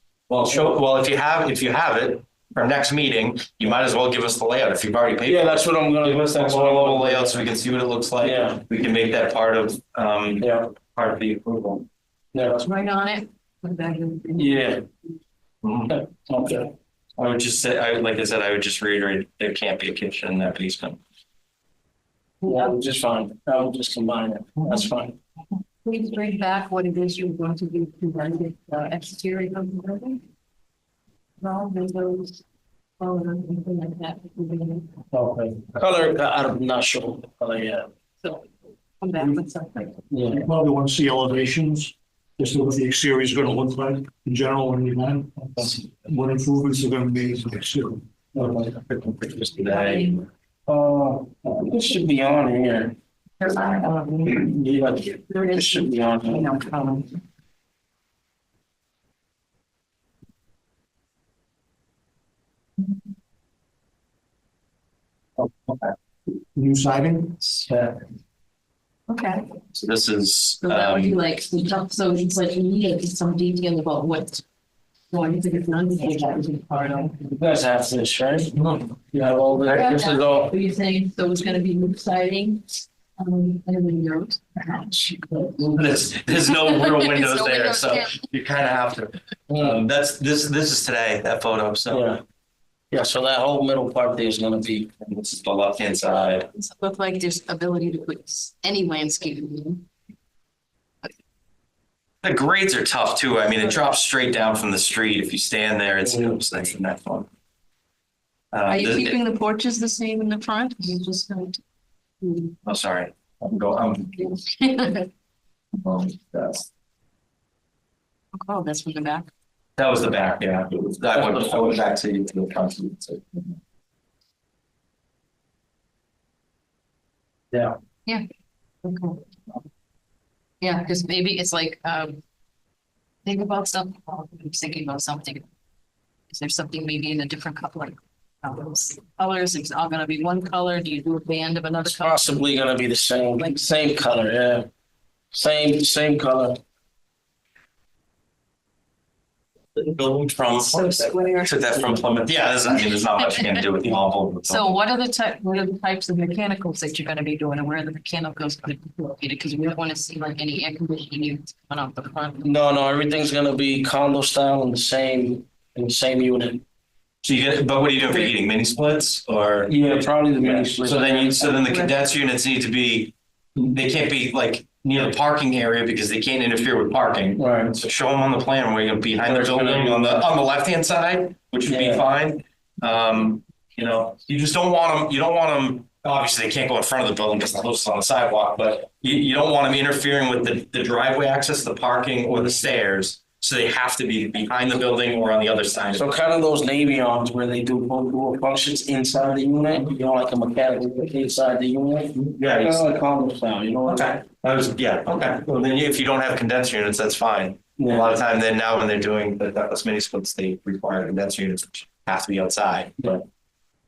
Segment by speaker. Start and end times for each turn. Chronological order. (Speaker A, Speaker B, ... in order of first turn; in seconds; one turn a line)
Speaker A: 0.3-11.8
Speaker B: 0.4-0.7
Speaker B: 5.2-7.5
Speaker B: 8.2-8.6
Speaker B: 10.4-10.7
Speaker B: 12.3-12.7
Speaker C: 12.6-14.8
Speaker B: 14.3-14.8
Speaker A: 15.6-15.9
Speaker B: 15.9-16.7
Speaker A: 17.2-21.0
Speaker C: 22.4-22.8
Speaker B: 22.4-25.1
Speaker C: 25.8-30.2
Speaker C: 31.4-32.4
Speaker C: 33.0-35.0
Speaker B: 35.1-37.9
Speaker C: 38.2-38.5
Speaker C: 39.0-40.0
Speaker B: 40.1-40.5
Speaker D: 40.4-48.0
Speaker B: 48.3-48.7
Speaker A: 48.5-50.2
Speaker C: 49.7-50.2
Speaker B: 50.7-53.0
Speaker C: 53.4-54.5
Speaker B: 54.2-56.5
Speaker C: 55.1-57.2
Speaker A: 65.4-65.9
Speaker D: 66.5-67.5
Speaker B: 67.6-68.0
Speaker C: 69.1-69.5
Speaker A: 69.7-71.2
Speaker C: 70.6-74.4
Speaker C: 75.1-77.4
Speaker B: 77.3-78.6
Speaker B: 79.1-80.5
Speaker C: 79.6-82.6
Speaker C: 83.2-85.7
Speaker A: 85.7-92.1
Speaker C: 86.5-88.2
Speaker B: 89.5-89.8
Speaker B: 91.9-92.2
Speaker B: 92.9-94.9
Speaker A: 95.0-96.5
Speaker C: 96.5-99.8
Speaker A: 102.2-107.3
Speaker A: 108.5-109.2
Speaker C: 108.7-111.6
Speaker C: 112.2-112.6
Speaker A: 112.7-114.2
Speaker C: 114.2-115.1
Speaker A: 115.8-116.7
Speaker C: 118.3-119.3
Speaker A: 119.8-123.6
Speaker C: 128.8-129.2
Speaker C: 130.6-132.2
Speaker C: 133.2-135.4
Speaker C: 136.3-142.4
Speaker B: 141.8-144.7
Speaker B: 145.3-146.6
Speaker A: 149.8-154.7
Speaker C: 150.5-152.0
Speaker C: 152.7-153.7
Speaker C: 154.4-162.5
Speaker B: 162.4-166.6
Speaker A: 167.2-169.7
Speaker B: 169.7-171.5
Speaker A: 170.4-196.1
Speaker C: 171.4-171.9
Speaker B: 177.4-177.8
Speaker B: 179.2-180.2
Speaker B: 181.7-182.0
Speaker B: 195.9-204.1
Speaker A: 202.1-202.8
Speaker A: 203.8-213.0
Speaker B: 207.8-208.1